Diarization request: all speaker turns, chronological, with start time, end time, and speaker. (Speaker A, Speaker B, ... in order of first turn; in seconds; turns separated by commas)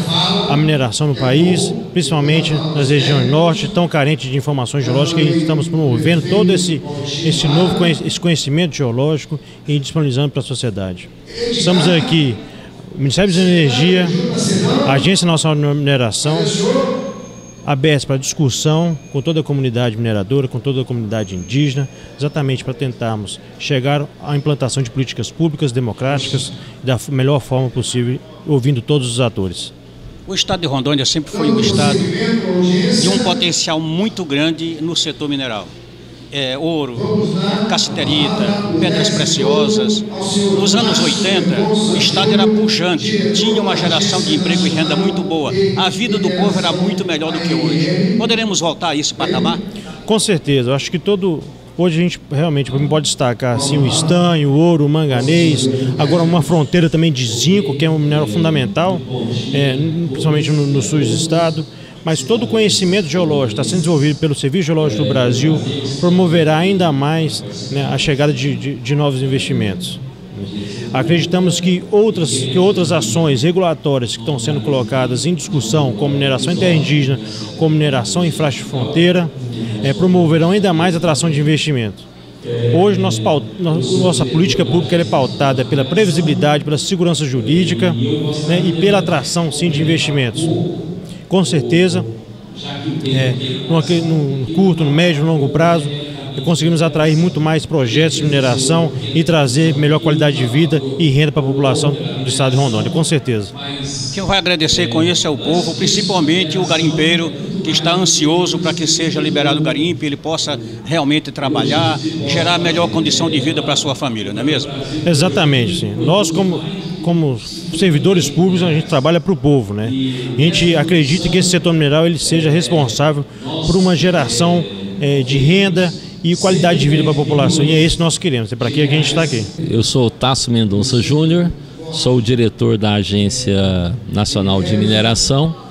Speaker A: 0.5-12.4, Speaker A: 12.9-14.2, Speaker A: 14.8-16.5, Speaker A: 17.6-29.7, Speaker B: 30.3-32.1, Speaker B: 33.0-35.7, Speaker B: 36.3-49.6, Speaker A: 50.1-70.0, Speaker A: 70.9-82.0, Speaker A: 82.7-90.5, Speaker A: 91.3-92.1, Speaker A: 93.1-103.5, Speaker B: 104.1-114.7, Speaker A: 115.0-129.5, Speaker C: 129.6-135.6